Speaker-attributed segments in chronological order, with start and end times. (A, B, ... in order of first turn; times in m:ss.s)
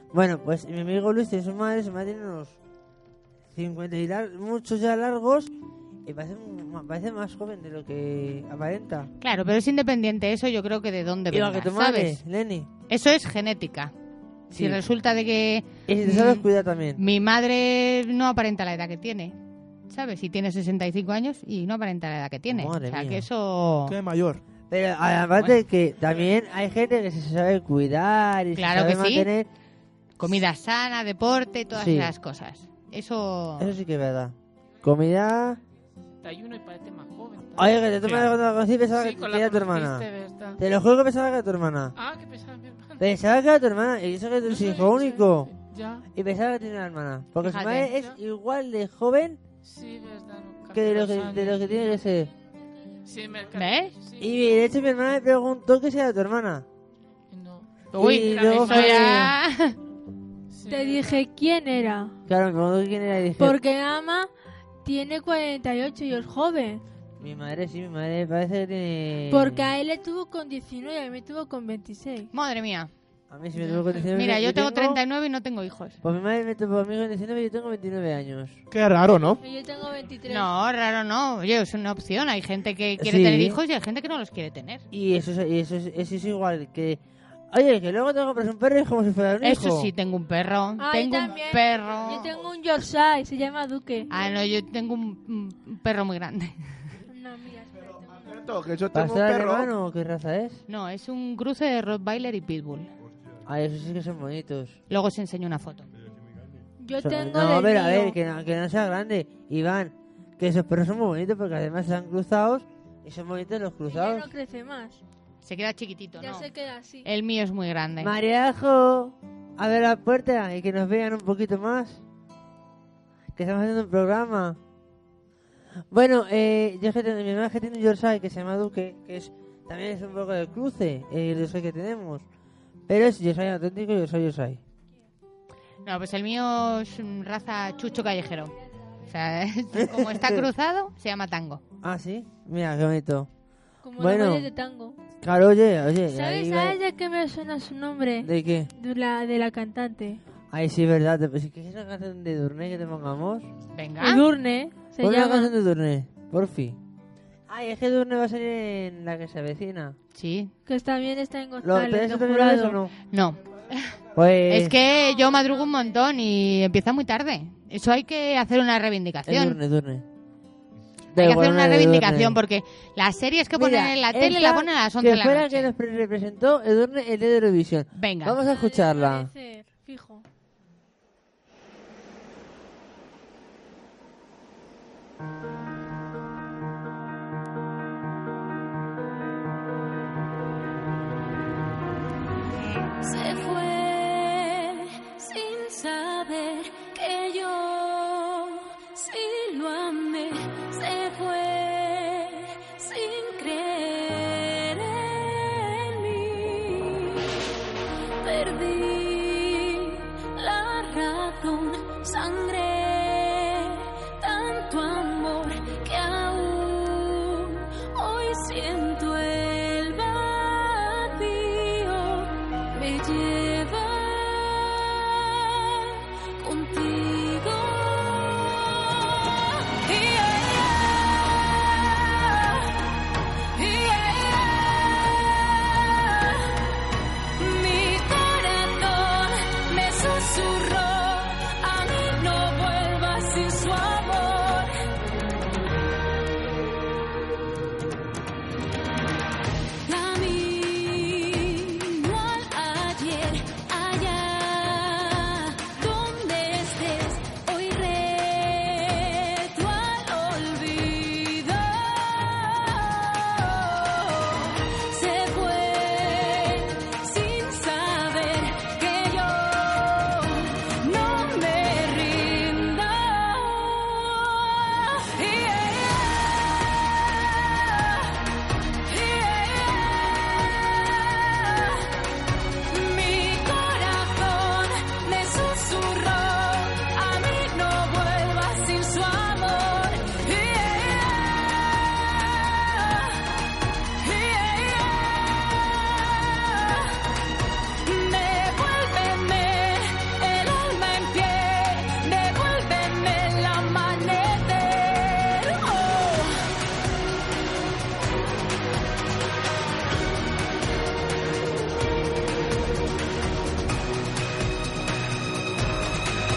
0:00.1-0:02.6 A
0:03.5-0:05.5 A
0:06.0-0:09.1 A
0:09.2-0:12.2 B
0:11.3-0:12.7 A
0:12.9-0:13.9 B
0:14.5-0:19.3 B
0:14.5-0:14.8 A
0:15.9-0:17.0 A
0:19.9-0:24.0 B
0:22.5-0:23.2 A
0:23.8-0:24.4 C
0:24.7-0:29.5 A
0:28.5-0:29.3 B
0:30.2-0:33.7 B
0:31.7-0:32.1 A
0:33.6-0:35.6 A
0:36.2-0:38.4 D
0:37.6-0:41.9 A
0:38.9-0:40.6 D
0:42.0-0:43.1 D
0:43.0-0:45.5 A
0:44.4-0:46.0 D
0:46.1-0:49.4 A
0:47.4-0:47.9 B
0:47.5-0:48.2 D
0:49.6-0:51.6 D
0:50.7-0:52.3 A
0:53.0-0:54.4 D
0:53.5-0:54.0 B
0:54.2-0:56.6 A
0:57.3-0:59.3 D
0:57.9-0:59.8 B
0:57.9-0:59.3 A
1:00.5-1:01.2 D
1:00.7-1:02.1 E
1:02.3-1:03.6 A
1:03.4-1:04.3 E
1:04.8-1:06.8 E
1:07.2-1:09.7 A
1:09.3-1:12.3 E
1:12.3-1:12.9 B
1:13.3-1:15.0 A
1:13.9-1:16.0 B
1:16.0-1:18.6 A
1:18.7-1:19.4 C
1:19.4-1:20.5 E
1:20.2-1:24.8 B
1:23.0-1:23.6 A
1:24.9-1:27.0 A
1:27.5-1:29.9 A
1:29.4-1:32.3 B
1:30.8-1:34.1 E
1:34.1-1:36.8 B
1:37.1-1:38.4 E
1:38.2-1:39.7 C
1:38.9-1:40.6 A
1:40.7-1:42.9 B
1:43.4-1:44.8 A
1:44.9-1:45.9 B
1:46.8-1:48.2 E
1:47.0-1:54.3 A
1:53.9-1:55.0 E
1:55.4-1:56.5 B
1:56.2-1:57.1 E
1:57.0-1:58.1 B
1:58.0-2:02.0 A
2:03.4-2:04.6 A
2:05.9-2:12.2 A
2:12.9-2:14.6 A
2:15.8-2:21.6 B
2:19.7-2:20.5 A
2:21.8-2:23.3 A
2:23.8-2:25.0 E
2:24.0-2:24.5 A
2:25.2-2:26.8 A
2:26.1-2:30.2 E
2:28.2-2:28.7 A
2:30.5-2:33.5 A
2:33.7-2:34.2 B
2:34.0-2:35.5 E
2:35.0-2:36.8 A
2:37.5-2:40.0 A
2:40.1-2:40.5 B
2:40.6-2:42.8 E
2:41.6-2:42.9 A
2:43.1-2:44.0 B
2:44.1-2:44.8 A
2:44.5-2:49.6 B
2:49.3-2:50.0 A
2:51.1-2:52.4 A
2:51.1-2:55.7 B
2:53.5-2:59.3 A
2:57.9-2:58.4 B
2:58.4-3:00.2 E
3:13.0-3:27.3 F
3:28.2-3:52.7 F
3:53.5-3:56.6 F
3:57.4-4:04.7 F
4:09.8-4:38.2 F
4:38.8-4:41.9 F
4:42.7-4:53.3 F
4:54.0-4:57.0 F
4:57.8-5:06.4 F